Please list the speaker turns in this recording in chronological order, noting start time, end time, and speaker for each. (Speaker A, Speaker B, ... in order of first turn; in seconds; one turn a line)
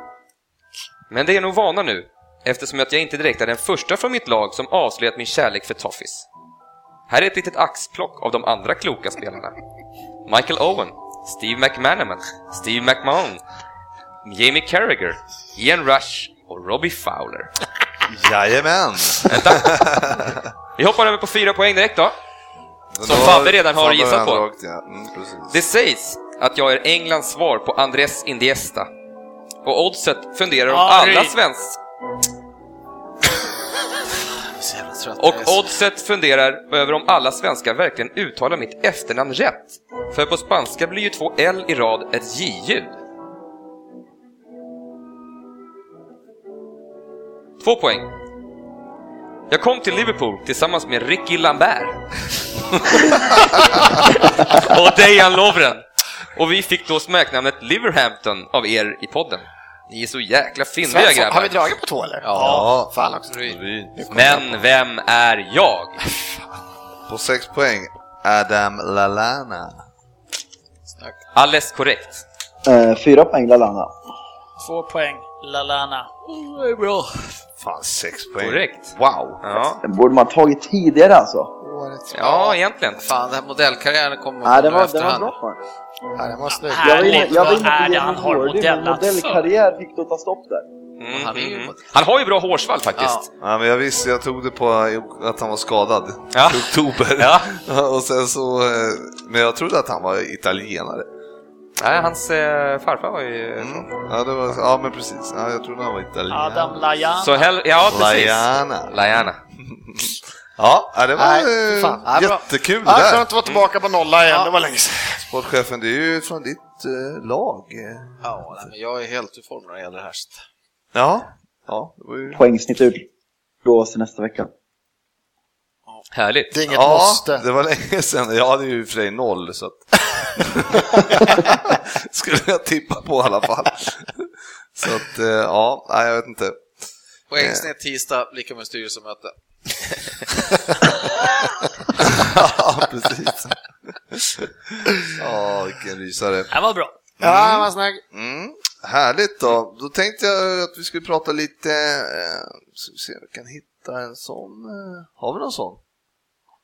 Speaker A: 1.1-6.3
Speaker A: 7.1-9.6
Speaker A: 10.2-13.4
Speaker A: 14.2-17.5
Speaker B: 18.1-20.5
Speaker A: 19.2-19.8
Speaker A: 20.8-22.1
Speaker B: 22.9-25.6
Speaker A: 23.0-24.4
Speaker A: 25.5-28.9
Speaker A: 29.6-31.8
Speaker C: 30.7-31.4
Speaker D: 34.3-35.7
Speaker A: 35.2-42.9
Speaker A: 47.6-48.1
Speaker A: 49.5-52.0
Speaker A: 52.7-55.8
Speaker A: 56.3-61.7
Speaker E: 60.8-63.3
Speaker D: 62.2-62.7
Speaker B: 62.3-64.6
Speaker D: 63.3-63.6
Speaker E: 64.0-64.3
Speaker A: 64.1-66.0
Speaker B: 67.1-69.8
Speaker D: 70.9-71.2
Speaker A: 71.3-72.2
Speaker F: 72.6-73.9
Speaker C: 74.6-77.3
Speaker B: 77.6-79.7
Speaker A: 78.4-79.8
Speaker F: 79.8-81.5
Speaker E: 81.6-82.6
Speaker A: 82.1-83.0
Speaker D: 83.0-85.3
Speaker F: 84.4-85.6
Speaker E: 86.2-87.7
Speaker C: 86.7-89.5
Speaker F: 86.8-90.6
Speaker A: 91.0-93.2
Speaker D: 91.1-91.8
Speaker D: 93.0-93.2
Speaker B: 93.4-101.1
Speaker A: 96.3-97.5
Speaker A: 101.8-103.9
Speaker B: 103.6-106.8
Speaker C: 106.3-107.5
Speaker A: 107.2-109.4
Speaker B: 107.9-113.2
Speaker E: 111.2-112.2
Speaker D: 112.0-112.4
Speaker E: 112.8-115.2
Speaker B: 115.2-118.2
Speaker D: 118.2-120.4
Speaker B: 120.9-122.4
Speaker F: 122.3-123.0
Speaker F: 123.6-124.5
Speaker A: 126.1-126.5
Speaker E: 126.5-127.4
Speaker B: 126.7-136.6
Speaker D: 137.3-139.3
Speaker B: 137.4-137.6
Speaker B: 142.0-143.6
Speaker B: 144.1-144.5
Speaker B: 145.1-146.5
Speaker C: 146.5-146.9
Speaker B: 147.2-155.8
Speaker E: 147.2-148.0